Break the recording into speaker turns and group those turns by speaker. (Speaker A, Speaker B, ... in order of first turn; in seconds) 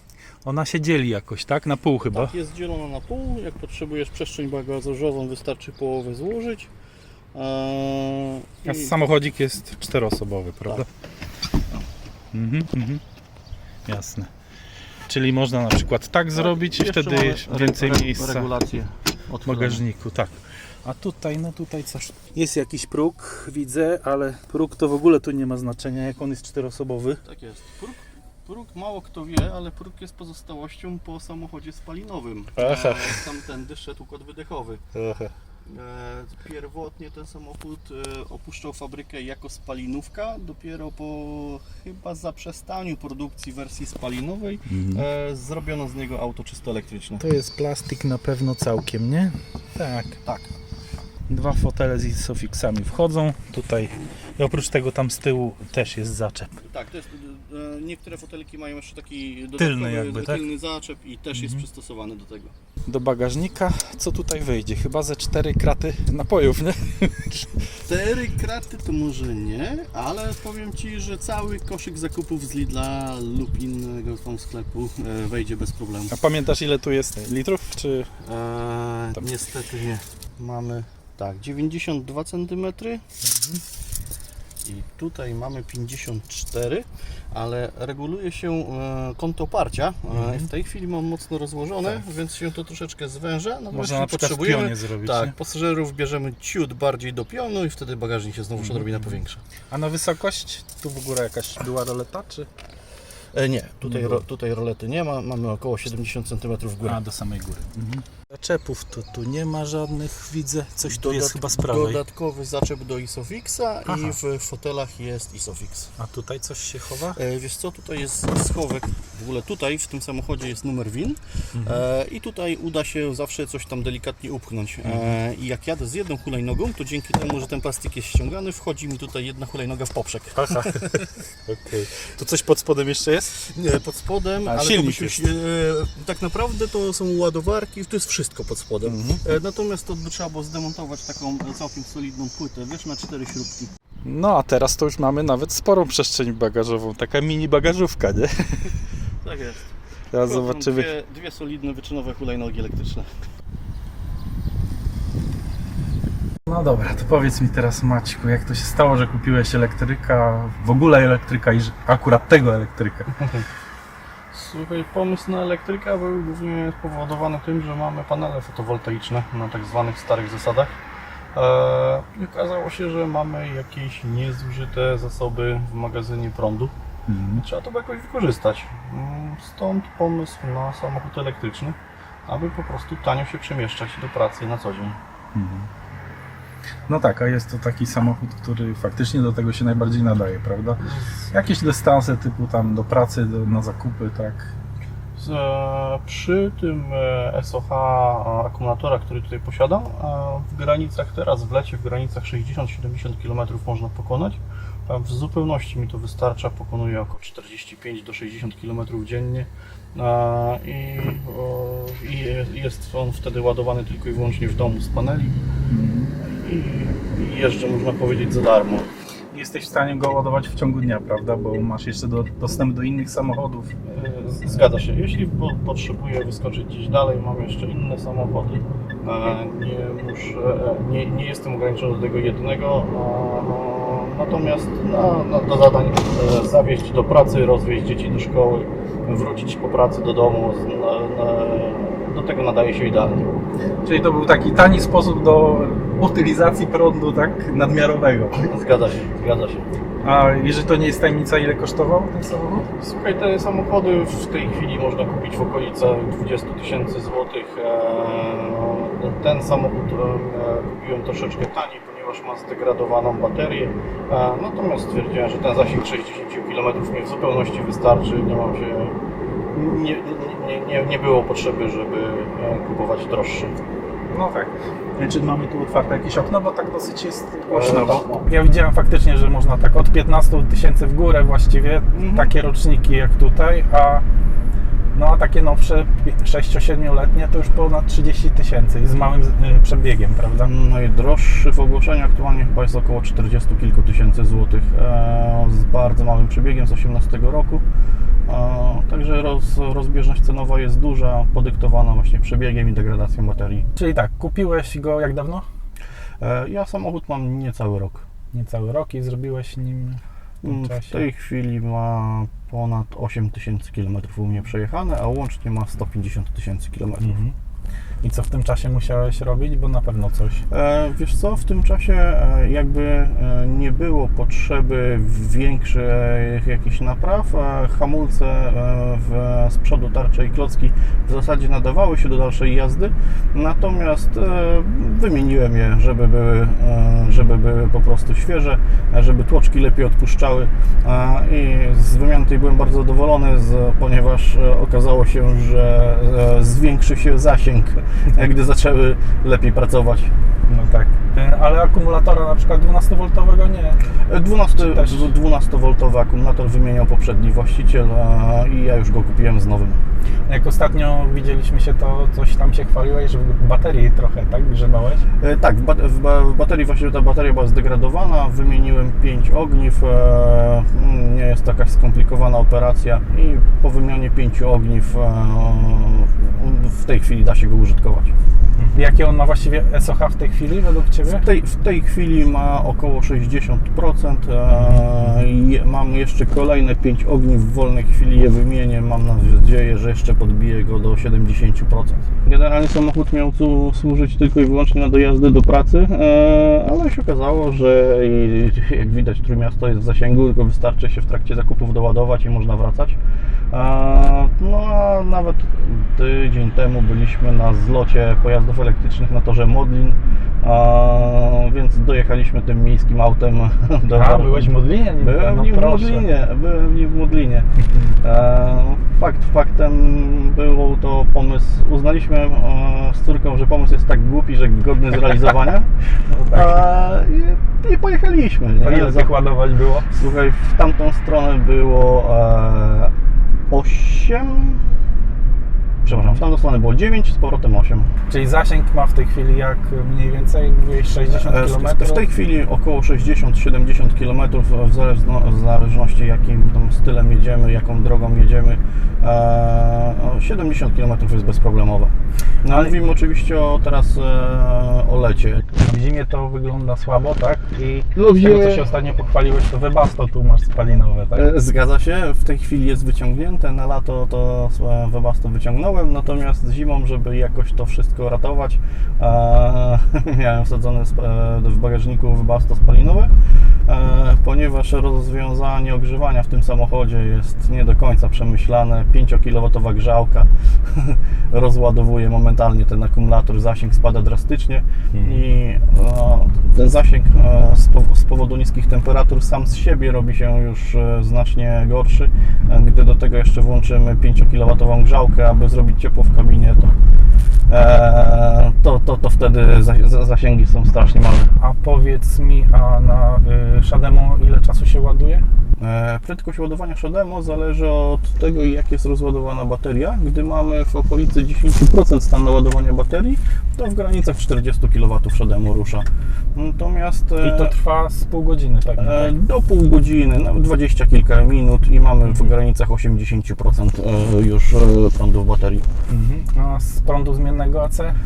Speaker A: 0.4-2.3, 8.6-10.9, 12.3-13.0, 13.8-14.3, 15.1-18.5, 19.4-27.2, 32.5-33.2, 34.9-35.3, 44.7-45.0, 47.2-50.2, 51.3-56.5, 59.6-60.5, 61.3-61.6, 62.9-67.6, 76.1-78.1, 83.2-83.6, 90.1-90.5, 93.7-95.3, 98.6-99.2, 99.7-102.5, 103.8-104.2, 106.8-112.0, 113.8-114.2, 116.0-117.2, 121.5-121.8, 124.8-125.2, 130.3-133.4, 134.4-135.3, 138.8-139.2, 144.0-148.7, 150.1-150.9, 156.4-163.1, 177.1-177.4, 185.3-185.7, 186.9-194.5, 215.7-216.1, 219.3-223.7, 243.8-248.4, 250.0-252.7, 274.1-284.0, 284.9-290.5, 303.8-305.5, 308.3-311.0, 317.0-317.3, 318.0-320.4, 350.5-353.8, 354.5-355.1, 360.3-365.0, 378.6-381.2, 413.9-416.1, 426.1-426.6, 428.6-429.9, 435.9-436.2, 438.1-442.0, 452.5-452.7, 455.6-461.2, 501.4-505.2, 517.2-519.1, 525.9-528.0
Speaker B: 2.1-6.7, 7.3-8.9, 16.3-19.8, 27.2-34.8, 35.6-47.2, 50.2-50.5, 56.6-62.5, 67.8-76.2, 78.2-83.0, 84.6-99.4, 103.3-107.0, 110.8-115.9, 117.1-131.1, 133.4-143.7, 149.2-153.2, 163.2-163.4, 164.3-170.7, 171.3-176.7, 177.4-185.0, 190.8-191.3, 195.2-215.4, 216.2-218.9, 223.8-243.4, 248.3-249.7, 252.8-268.9, 269.5-273.6, 277.5-278.2, 281.9-282.3, 290.4-297.6, 298.3-303.6, 306.2-308.0, 310.4-317.2, 320.5-350.1, 354.0-359.8, 365.2-378.1, 381.0-403.0, 403.5-417.5, 418.0-425.7, 426.2-429.1, 429.9-432.9, 433.5-434.7, 435.8-437.9, 441.1-455.5, 457.9-458.7, 461.1-473.1, 473.6-496.7, 497.5-501.3, 505.6-517.5, 518.8-525.7